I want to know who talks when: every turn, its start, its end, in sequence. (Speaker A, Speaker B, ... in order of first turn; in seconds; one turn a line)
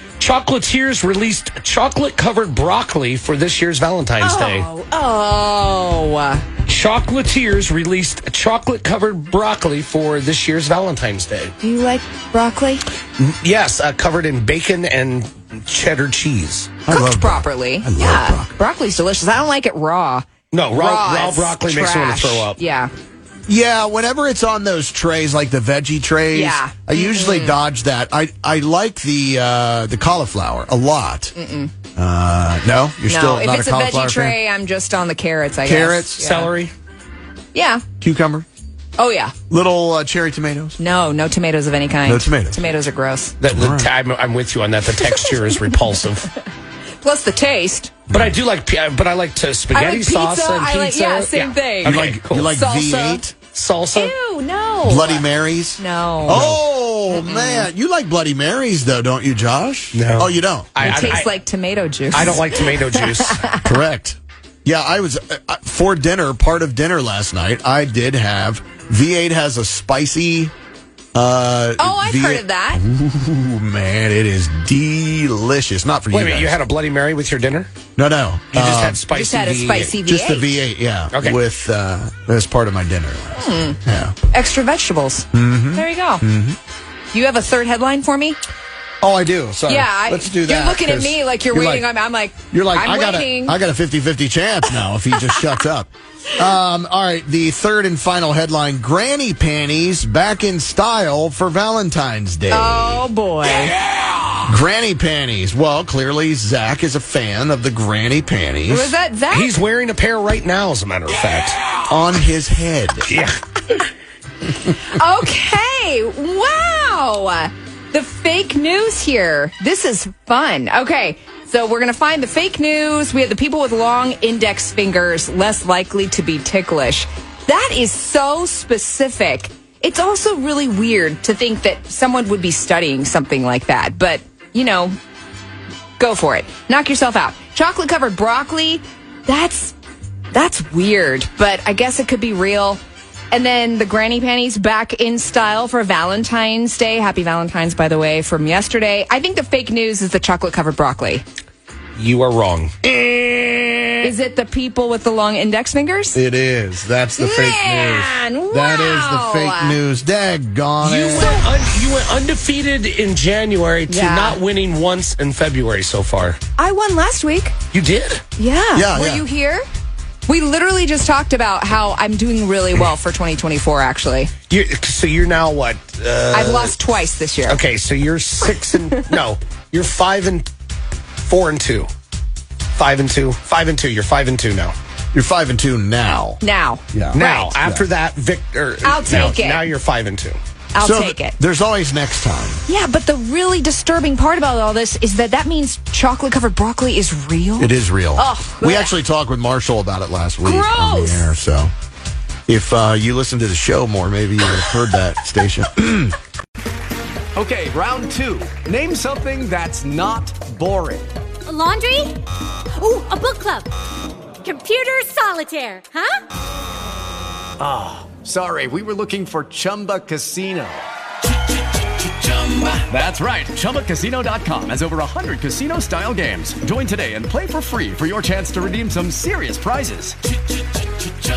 Speaker A: 0.2-4.7
Speaker B: 4.2-6.4
Speaker A: 6.7-11.5
Speaker B: 11.6-12.8
Speaker A: 13.2-16.7
Speaker C: 16.9-18.5
Speaker B: 16.9-22.9
Speaker A: 20.5-22.6
Speaker C: 23.5-31.3
Speaker B: 26.3-27.6
Speaker B: 31.3-31.7
Speaker C: 31.9-34.4
Speaker B: 33.1-36.5
Speaker C: 35.6-36.3
Speaker A: 36.2-36.7
Speaker B: 37.5-37.8
Speaker C: 38.0-38.5
Speaker B: 39.0-39.3
Speaker C: 39.5-40.8
Speaker B: 40.8-43.3
Speaker C: 42.0-42.8
Speaker A: 43.4-46.3
Speaker C: 43.5-43.9
Speaker B: 47.0-47.9
Speaker A: 48.1-52.6
Speaker B: 49.7-52.0
Speaker C: 51.8-53.4
Speaker B: 52.5-53.2
Speaker A: 53.5-54.1
Speaker B: 53.9-55.2
Speaker C: 54.8-61.2
Speaker B: 55.8-56.4
Speaker A: 56.3-56.6
Speaker B: 57.1-57.7
Speaker A: 59.9-61.3
Speaker B: 60.8-63.7
Speaker A: 62.1-63.4
Speaker C: 63.6-70.5
Speaker C: 71.1-76.6
Speaker B: 71.8-72.8
Speaker A: 76.1-77.7
Speaker C: 78.0-79.0
Speaker A: 78.5-80.0
Speaker B: 79.1-80.6
Speaker C: 80.0-84.1
Speaker A: 81.1-81.4
Speaker B: 83.3-83.8
Speaker B: 84.3-86.2
Speaker C: 85.3-86.6
Speaker B: 87.1-88.4
Speaker C: 89.0-91.9
Speaker B: 89.7-93.6
Speaker C: 92.5-103.1
Speaker B: 95.1-95.4
Speaker B: 102.5-103.7
Speaker A: 103.4-104.5
Speaker C: 104.5-108.9
Speaker B: 108.7-109.5
Speaker A: 109.3-111.9
Speaker C: 111.9-113.1
Speaker A: 113.1-113.8
Speaker B: 114.7-134.9
Speaker B: 136.0-139.7
Speaker B: 140.3-142.8
Speaker B: 143.3-151.2
Speaker A: 152.0-152.7
Speaker C: 152.8-154.1
Speaker B: 154.0-156.2
Speaker C: 156.1-161.4
Speaker B: 157.2-159.8
Speaker A: 160.8-166.4
Speaker B: 161.2-161.4
Speaker B: 163.9-164.4
Speaker B: 166.6-167.5
Speaker A: 167.7-168.2
Speaker B: 168.4-169.6
Speaker C: 168.7-169.2
Speaker B: 170.3-174.3
Speaker A: 174.5-176.8
Speaker B: 176.3-177.6
Speaker A: 177.4-180.5
Speaker A: 181.2-181.9
Speaker A: 182.7-184.7
Speaker C: 185.1-186.4
Speaker B: 186.4-187.5
Speaker C: 186.9-187.8
Speaker A: 187.1-190.4
Speaker B: 188.8-189.7
Speaker B: 190.7-191.3
Speaker C: 190.8-192.6
Speaker B: 192.7-198.9
Speaker C: 197.6-201.7
Speaker B: 200.4-201.4
Speaker C: 202.5-206.2
Speaker D: 207.3-211.1
Speaker E: 211.5-212.2
Speaker E: 212.8-213.7
Speaker E: 214.4-216.1
Speaker D: 217.6-220.8
Speaker D: 222.7-230.2